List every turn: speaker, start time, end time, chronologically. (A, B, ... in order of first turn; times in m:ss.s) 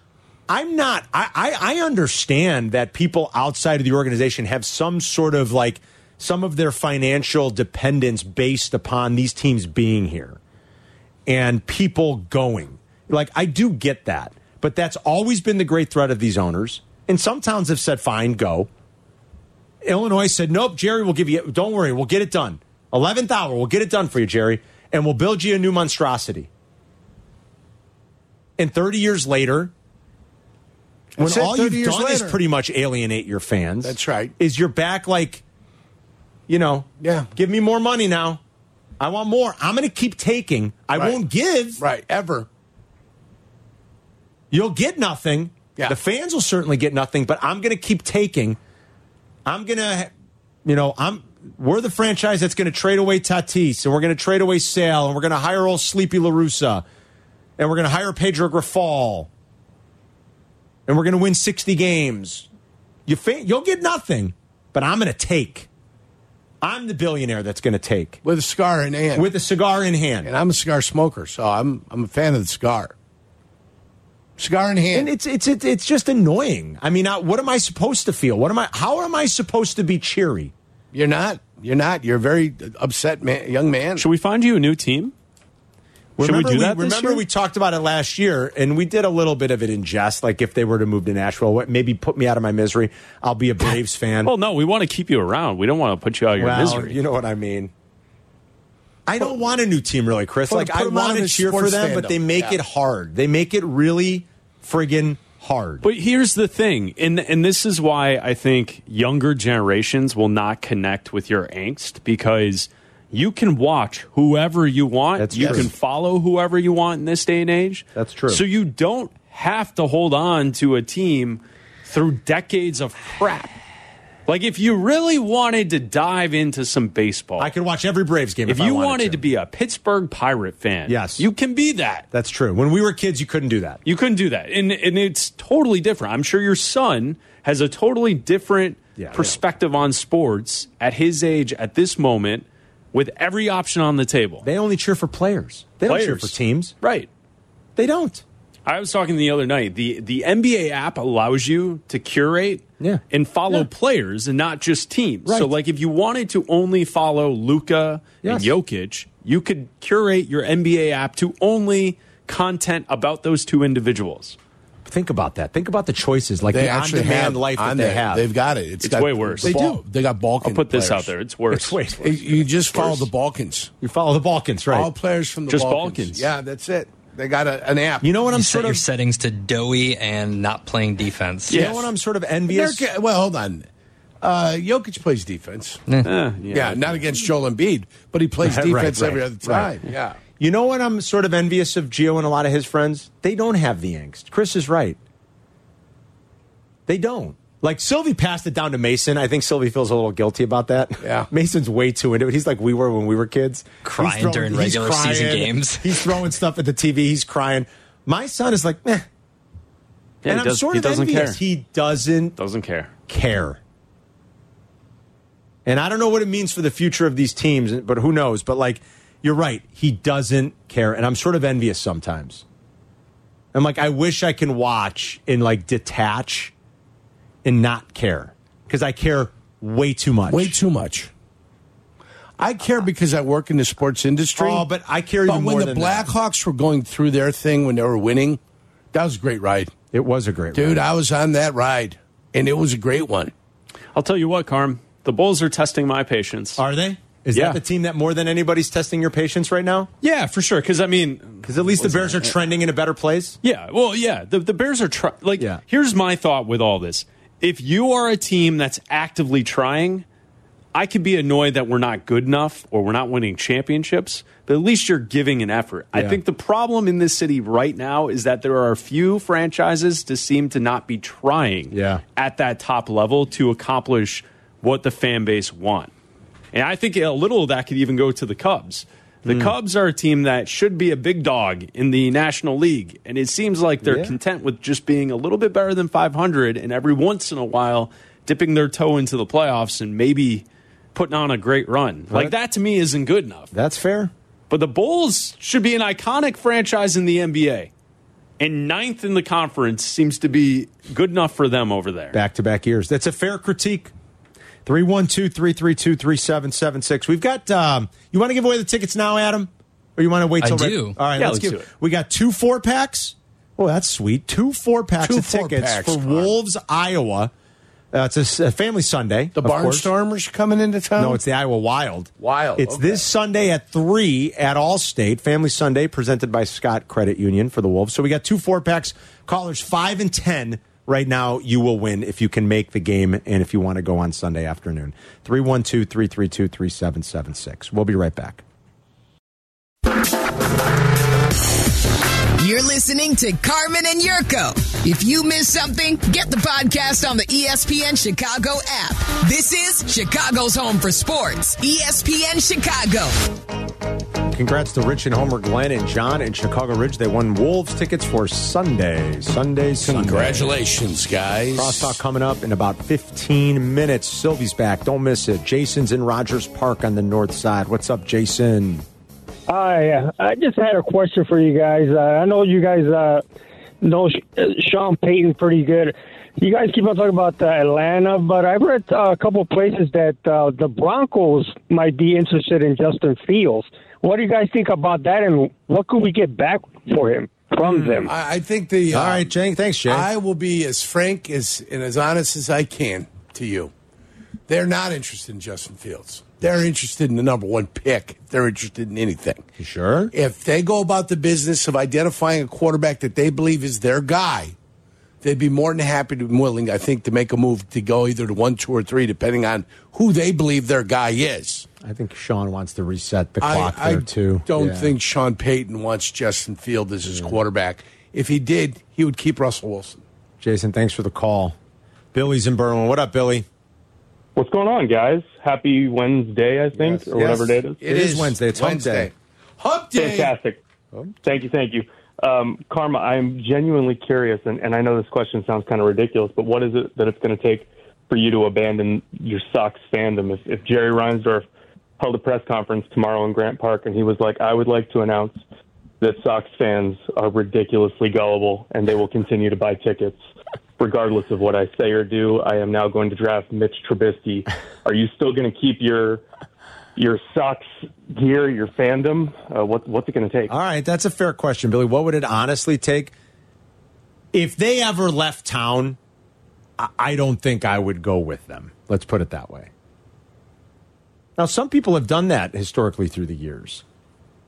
0:00.5-0:10.4 A
0:11.3-0:18.7 A
0:19.8-0:26.5 A
0:28.6-0:29.7 A
0:31.2-0:32.4 B
0:31.2-0:35.4 A
0:33.8-0:34.3 B
0:36.5-0:38.4 A
0:37.0-0:37.3 B
0:39.0-0:41.8 A
0:40.9-0:41.2 B
0:41.8-0:42.5 B
0:44.5-0:48.6 A
0:49.4-0:50.1 A
0:50.6-0:56.8 A
0:57.6-0:59.3 A
1:00.9-1:02.5 A
1:03.1-1:05.7 A
1:06.6-1:08.2 A
1:08.2-1:09.3 B
1:09.1-1:10.3 A
1:10.2-1:12.9 B
1:14.4-1:15.1 B
1:14.9-1:20.5 A
1:20.9-1:24.0 B
1:24.0-1:25.1 C
1:26.2-1:34.3 A
1:26.2-1:27.2 C
1:34.2-1:37.0 C
1:36.4-1:37.7 A
1:39.0-1:45.8 A
1:40.5-1:42.6 B
1:45.8-2:03.6 C
1:55.2-1:55.7 A
1:55.4-1:55.6 B
1:57.9-1:58.4 A
2:04.2-2:07.5 C
2:07.4-2:09.2 A
2:08.5-2:12.0 C
2:10.9-2:11.3 A
2:12.1-2:13.8 A
2:13.8-2:24.4 C
2:19.0-2:19.4 A
2:24.4-2:26.7 A
2:25.8-2:27.1 C
2:27.8-2:28.2 A
2:28.6-2:44.4 C
2:32.8-2:33.6 A
2:35.2-2:35.5 A
2:38.2-2:38.5 A
2:44.8-2:48.2 A
2:46.5-2:51.1 B
2:48.8-2:49.6 C
2:49.4-2:49.8 A
2:50.4-2:51.8 C
2:51.5-2:53.1 A
2:52.0-2:53.7 B
2:53.8-2:54.9 A
2:54.7-2:58.1 B
2:55.5-2:56.3 C
2:58.0-2:58.8 A
2:58.3-3:01.6 D
3:01.5-3:02.9 A
3:01.5-3:01.9 C
3:02.5-3:03.6 B
3:04.2-3:05.8 B
3:06.0-3:07.0 C
3:06.5-3:10.2 B
3:08.4-3:09.7 A
3:10.4-3:15.0 A
3:16.9-3:29.0 A
3:21.0-3:21.3 B
3:23.8-3:26.1 D
3:30.2-3:31.4 C
3:30.3-3:32.4 A
3:32.4-3:32.9 C
3:33.1-3:33.6 A
3:35.6-3:42.4 A
3:43.5-3:46.5 A
3:47.4-3:50.6 A
3:50.3-3:51.1 B
3:52.4-3:54.7 B
3:54.4-3:56.1 A
3:55.2-3:58.4 B
3:58.9-3:59.7 B
3:59.9-4:00.8 A
4:00.5-4:03.3 B
4:03.9-4:06.6 C
4:06.6-4:09.9 A
4:07.3-4:07.6 C
4:10.0-4:12.4 C
4:11.4-4:13.4 A
4:13.4-4:20.0 C
4:20.7-4:35.9 C
4:25.9-4:26.2 A
4:31.7-4:32.0 A
4:36.5-4:53.5 C
4:39.3-4:39.5 A
4:43.8-4:44.1 A
4:52.1-4:52.3 A
4:53.5-4:54.1 A
4:54.5-4:57.7 C
4:58.4-5:02.2 C
5:02.1-5:03.9 A
5:04.6-5:17.3 A
5:10.4-5:11.0 D
5:11.1-5:11.7 C
5:15.0-5:16.3 B
5:17.9-5:19.9 A
5:19.4-5:21.2 B
5:21.0-5:38.4 A
5:22.2-5:23.0 B
5:42.4-5:53.2 E
5:54.3-6:00.5 A
5:59.8-6:02.0 B
6:01.5-6:08.8 A
6:09.5-6:13.2 F
6:13.8-6:28.1 F
6:27.6-6:28.1 A
6:28.0-6:29.3 B
6:28.9-6:30.1 A
6:29.9-6:33.7 B
6:34.5-6:39.4 B
6:39.6-6:40.1 A
6:40.1-6:44.5 B
6:45.2-6:51.7 B
6:51.8-6:54.9 A
6:53.4-7:00.0 B
7:00.4-7:01.5 A
7:02.1-7:03.4 A
7:04.4-7:07.8 G
7:06.7-7:09.1 A
7:07.8-7:10.4 B
7:09.9-7:10.6 G
7:11.2-7:21.4 G
7:22.0-7:25.4 G
7:26.0-7:30.2 G
7:30.8-7:36.2 G
7:37.0-7:40.5 G
7:40.5-7:43.1 A
7:44.3-7:46.0 A
7:46.8-7:49.7 A
7:51.4-7:53.8 A